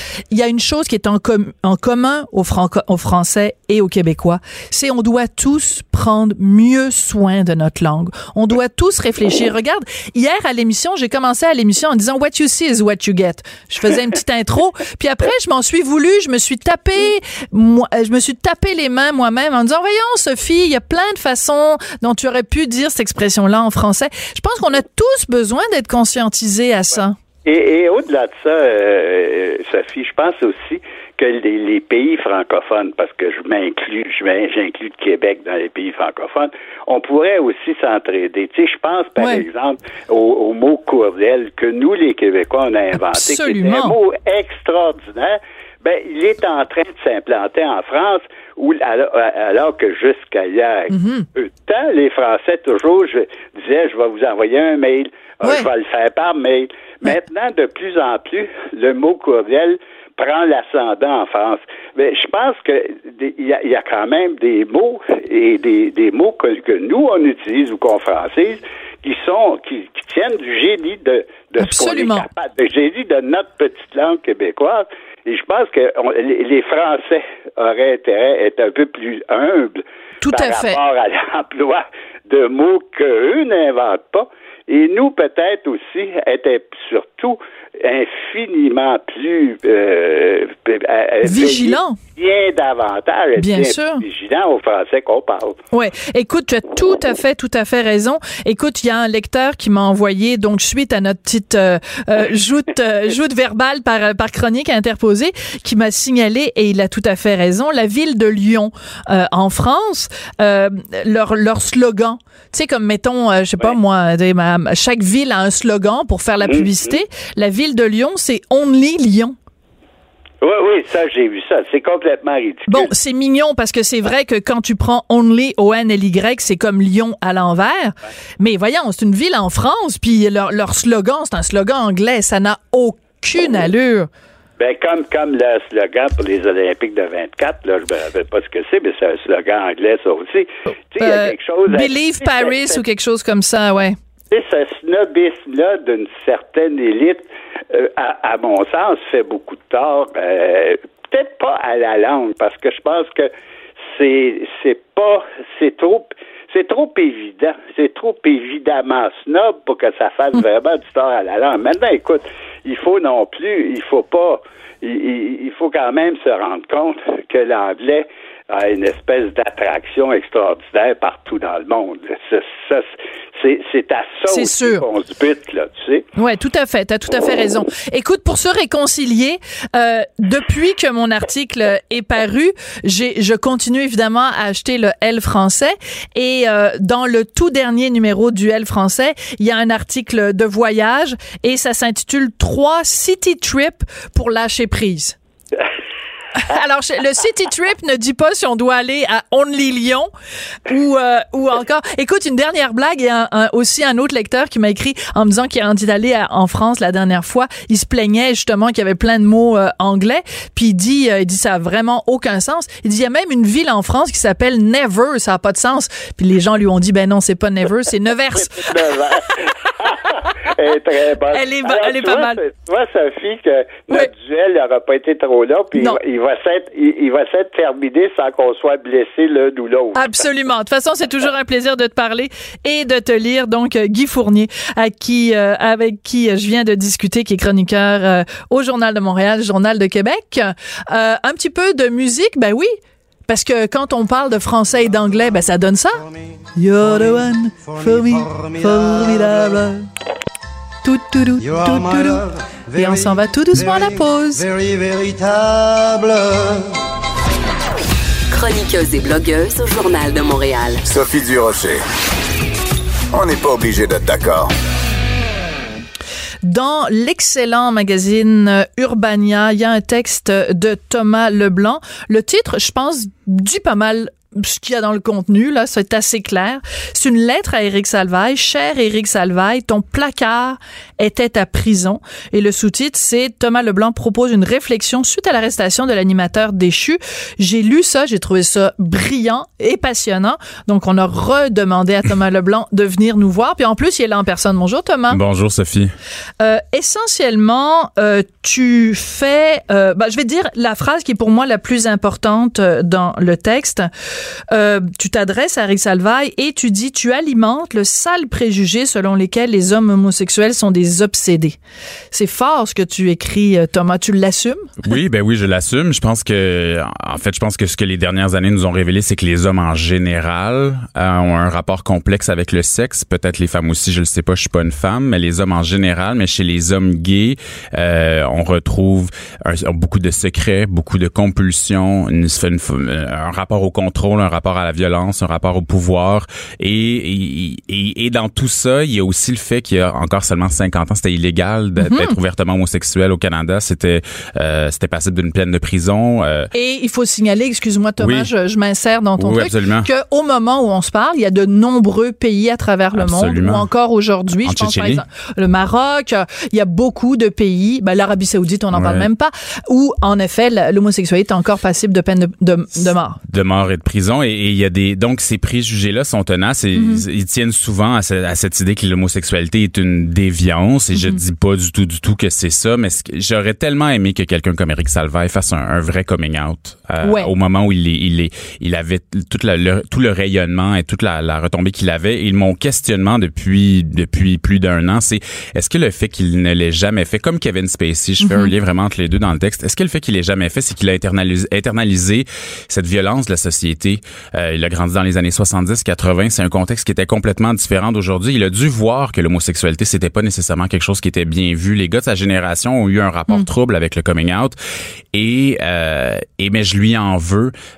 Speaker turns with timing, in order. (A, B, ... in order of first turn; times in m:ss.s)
0:00.3-0:27.2 A
0:27.4-1:35.6 B
0:39.2-0:39.4 A
0:43.0-0:44.0 A
0:50.9-0:51.3 A
1:11.6-1:12.2 A
1:20.2-1:20.8 A
1:31.2-1:32.0 A
1:33.4-1:34.0 A
1:35.7-1:59.3 A
1:56.4-1:56.9 B
2:00.4-2:02.9 B
2:02.7-2:14.1 A
2:14.6-2:22.8 B
2:21.0-2:24.0 A
2:24.3-2:33.3 B
2:33.9-2:56.0 B
2:54.3-2:54.8 A
2:56.2-3:15.2 A
3:16.3-3:20.1 A
3:20.7-3:38.9 A
3:38.3-3:50.1 B
3:41.3-3:42.4 A
3:49.9-4:02.7 A
4:03.3-4:06.0 A
4:06.6-4:09.9 A
4:10.8-4:14.5 A
4:18.3-4:20.8 C
4:20.8-4:21.8 D
4:23.1-4:24.5 D
4:26.4-4:55.2 A
4:55.1-4:55.9 E
4:56.4-5:03.9 A
5:04.5-5:11.6 A
5:12.1-5:14.9 A
5:14.8-5:46.5 E
5:41.8-5:42.2 A
5:46.5-6:03.2 A
5:48.0-5:48.3 E
5:49.2-5:49.9 E
5:52.9-5:53.7 E
5:54.4-5:55.0 E
5:58.7-5:59.1 E
6:03.3-6:44.6 E
6:06.7-6:07.0 A
6:10.9-6:11.2 A
6:17.0-6:17.3 A
6:28.2-6:28.5 A
6:45.1-6:47.5 E